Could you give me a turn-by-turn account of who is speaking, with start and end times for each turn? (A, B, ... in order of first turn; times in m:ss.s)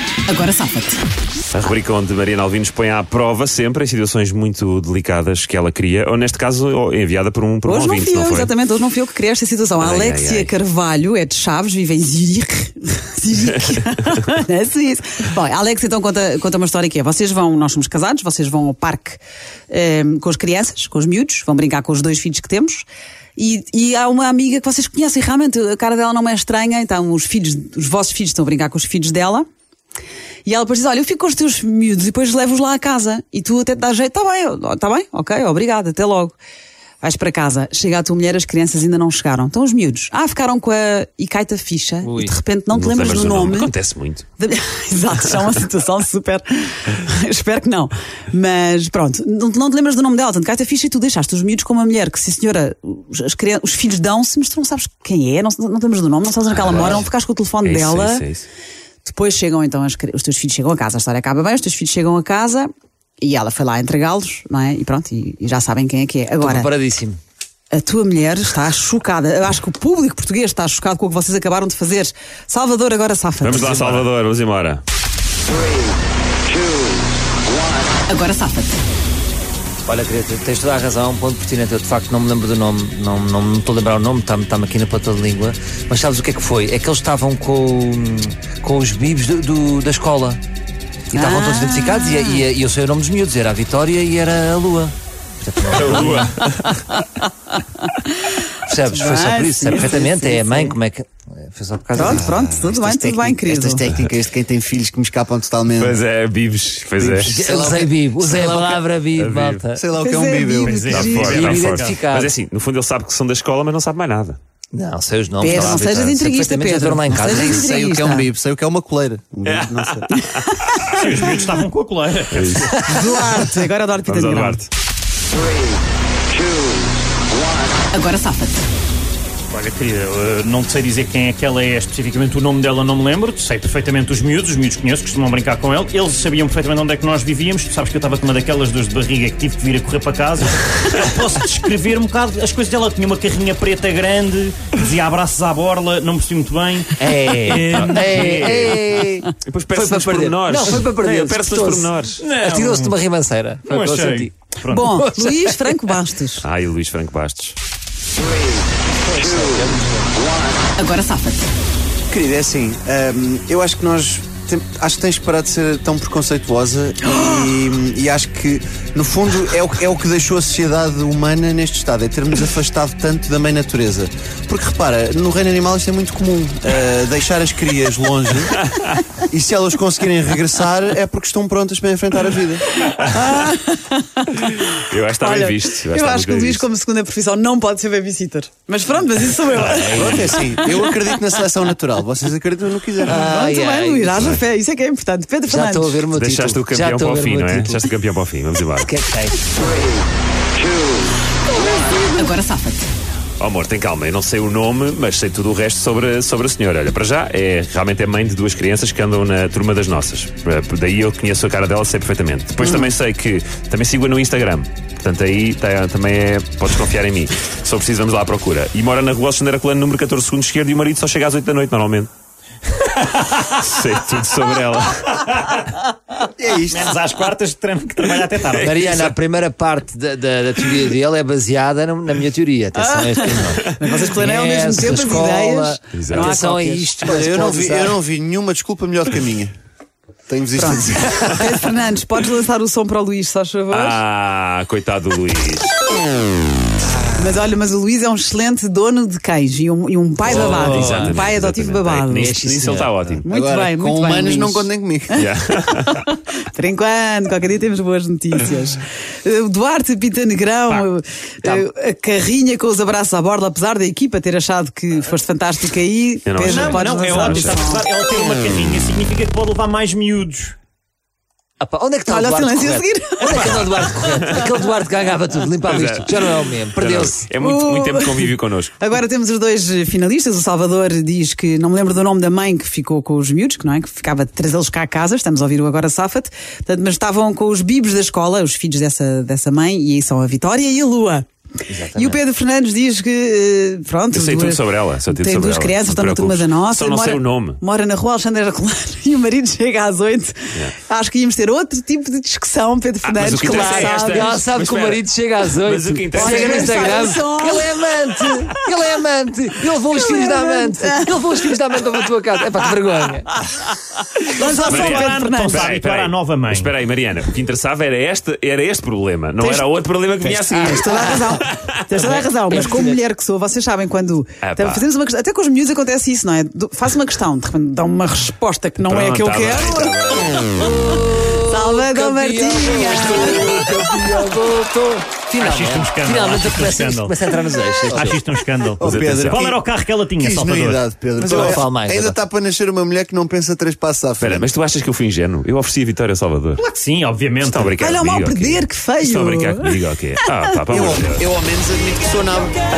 0:00.3-0:01.0 A
0:01.5-0:08.5 B
0:07.6-0:29.4 A
0:09.8-0:10.5 B
0:13.5-0:13.8 B
0:30.4-0:36.4 A
0:37.0-0:43.7 A
0:42.0-0:42.4 C
0:42.7-0:44.2 B
0:44.4-0:58.2 A
0:56.5-0:57.1 B
0:57.6-0:58.5 B
0:59.0-1:02.7 A
1:03.2-1:06.7 A
1:06.4-1:07.2 C
1:07.7-1:13.7 A
1:13.4-1:14.8 B
1:13.6-1:14.1 C
1:18.1-1:18.8 A
1:19.9-1:30.4 C
1:31.1-1:36.3 C
1:31.1-1:32.4 A
1:35.8-1:36.8 B
1:36.7-1:40.8 A
1:38.7-1:42.4 C
1:41.9-1:43.8 A
1:42.0-1:46.0 D
1:45.7-1:47.3 B
1:47.0-1:48.8 D
1:47.2-1:49.8 C
1:49.2-1:49.6 B
1:49.8-1:50.9 D
1:50.0-1:51.4 A
1:50.6-1:52.0 E
1:50.9-1:54.4 B
1:51.2-1:52.3 C
1:54.7-1:57.6 C
1:55.4-1:58.3 A
1:57.1-2:00.1 D
1:59.4-2:00.9 B
2:00.1-2:00.8 A
2:00.8-2:02.9 E
2:02.3-2:02.8 B
2:02.8-2:04.6 A
2:04.1-2:04.7 B
2:07.9-2:08.6 A
2:09.5-2:28.7 E
2:27.0-2:36.0 C
2:28.0-2:28.8 B
2:29.4-2:32.2 B
2:32.2-2:32.9 E
2:33.7-2:34.9 E
2:34.7-2:36.4 A
2:36.4-2:37.6 B
2:38.9-2:40.1 C
2:40.8-2:41.5 A
2:42.1-2:58.7 D
2:58.7-2:59.0 B
2:59.2-3:02.6 D
3:02.8-3:11.2 A
3:04.7-3:06.6 B
3:09.6-3:10.3 C
3:09.9-3:13.2 D
3:13.0-3:14.4 C
3:13.1-3:16.0 A
3:14.2-3:14.4 B
3:15.5-3:17.9 C
3:16.1-3:18.9 B
3:18.8-3:19.5 C
3:21.4-3:22.9 A
3:23.4-3:42.1 B
3:43.0-3:43.4 E
3:43.5-3:45.2 B
3:45.2-3:45.8 E
3:46.4-3:47.0 D
3:46.6-3:49.1 E
3:48.6-3:58.0 C
3:52.8-3:56.9 A
3:55.9-3:56.4 B
3:57.0-3:59.5 D
4:00.3-4:01.2 D
4:00.6-4:04.0 A
4:03.7-4:05.9 B
4:07.2-4:12.4 A
4:10.2-4:11.2 C
4:10.2-4:13.3 B
4:12.1-4:13.0 C
4:13.2-4:14.2 A
4:13.3-4:15.2 D
4:13.7-4:14.7 C
4:15.1-4:16.1 B
4:15.8-4:27.9 A
4:26.3-4:27.6 B
4:26.4-4:30.6 E
4:31.6-4:37.2 C
4:32.1-4:34.4 A
4:33.2-4:34.0 E
4:35.6-4:36.2 B
4:36.8-4:38.8 B
4:37.4-4:51.3 A
4:51.7-4:52.2 C
4:51.9-5:04.4 A
4:54.1-4:57.6 B
5:03.0-5:06.9 B
5:03.3-5:13.3 C
5:06.1-5:07.8 A
5:09.9-5:11.1 A
5:14.3-5:15.7 A
5:14.3-5:16.8 E
5:14.6-5:21.8 B
5:20.5-5:21.4 C
5:20.6-5:30.7 A
5:22.0-5:23.0 C
5:24.4-5:24.8 B
5:28.8-5:30.7 B
5:30.8-5:38.2 C
5:31.3-5:33.9 A
5:35.4-5:41.4 E
5:37.9-5:38.2 D
5:38.8-5:39.6 D
5:38.8-5:39.5 B
5:40.2-5:44.5 D
5:41.2-5:42.2 C
5:44.2-5:46.6 B
5:46.6-5:47.8 E
5:47.4-5:51.3 B
5:47.8-5:50.4 A
5:50.7-5:52.6 D